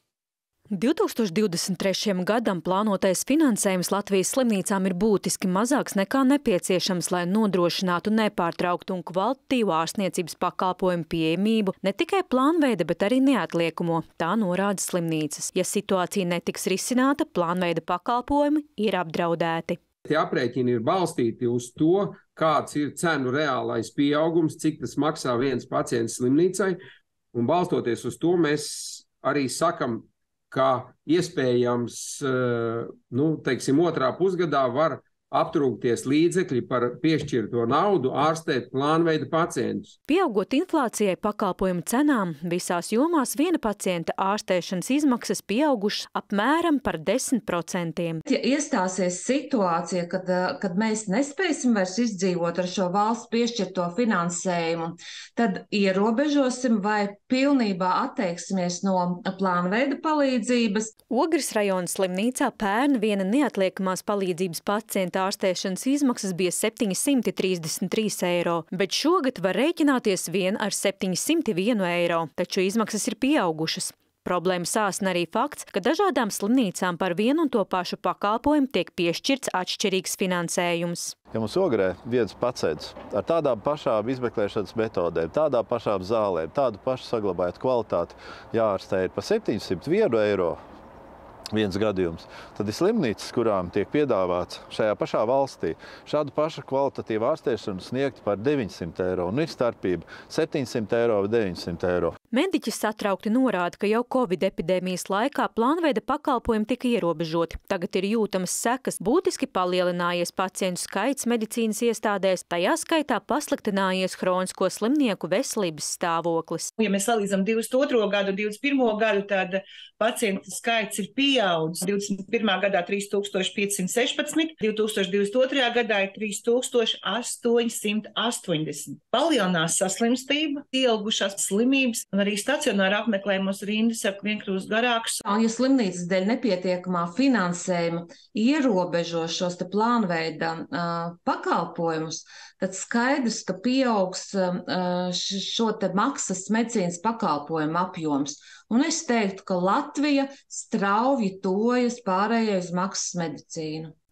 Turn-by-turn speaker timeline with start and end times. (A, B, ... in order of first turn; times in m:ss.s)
0:00.7-0:19.8 A
0:20.0-0:26.8 B
0:27.3-0:39.9 B
0:40.1-0:48.2 A
0:48.3-1:00.9 C
1:01.1-1:21.2 A
1:21.3-1:30.6 D
1:31.5-1:42.1 D
1:42.3-1:56.7 A
1:56.8-2:15.2 E
2:15.2-2:33.9 C